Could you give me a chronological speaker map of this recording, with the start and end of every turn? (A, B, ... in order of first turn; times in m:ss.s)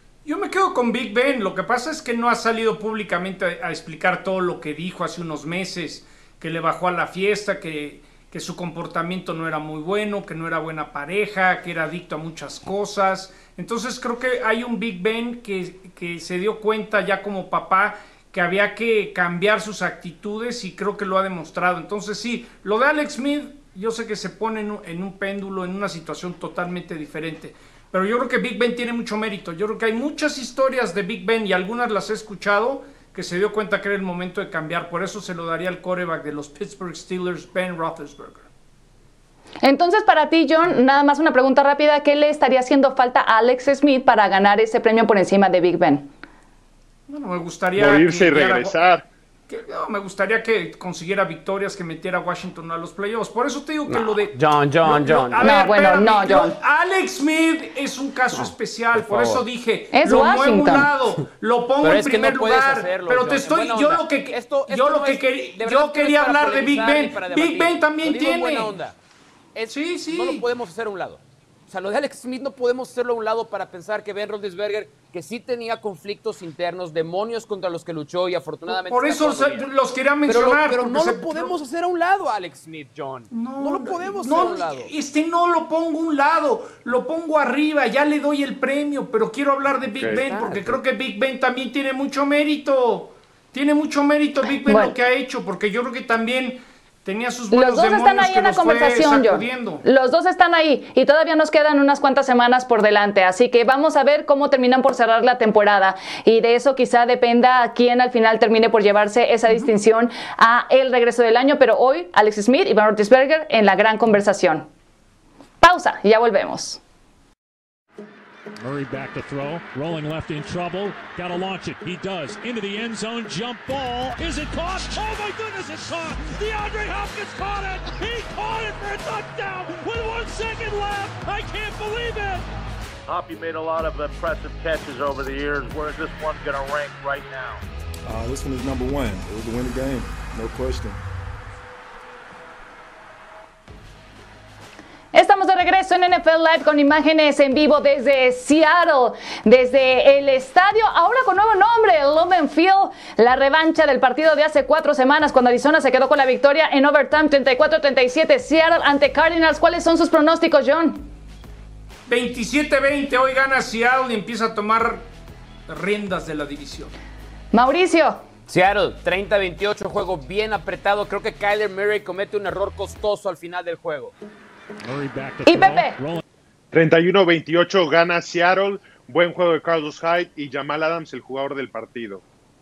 0:00.2-0:38.5 A
0:39.6-0:46.1 B
0:47.1-0:48.8 A
0:47.8-0:49.0 C
0:49.5-1:08.8 A
0:53.9-0:55.5 D
0:55.4-0:56.5 B
0:58.3-0:59.4 D
0:59.9-1:00.9 B
1:01.8-1:09.0 D
1:09.5-1:19.7 D
1:09.7-1:10.4 A
1:18.7-1:21.5 A
1:20.2-1:24.9 D
1:23.3-1:39.8 A
1:29.9-1:30.2 C
1:30.1-1:30.8 D
1:34.6-1:34.9 B
1:37.5-1:54.7 B
1:55.6-1:56.8 B
1:58.6-2:12.4 E
2:13.1-2:17.6 F
2:18.1-2:20.9 G
2:25.1-2:41.1 B
2:42.1-2:45.0 A
2:45.7-2:46.9 A
2:47.5-2:48.2 B
2:48.5-2:54.1 D
2:54.8-2:56.2 E
2:55.4-2:56.0 B
2:56.7-3:02.2 C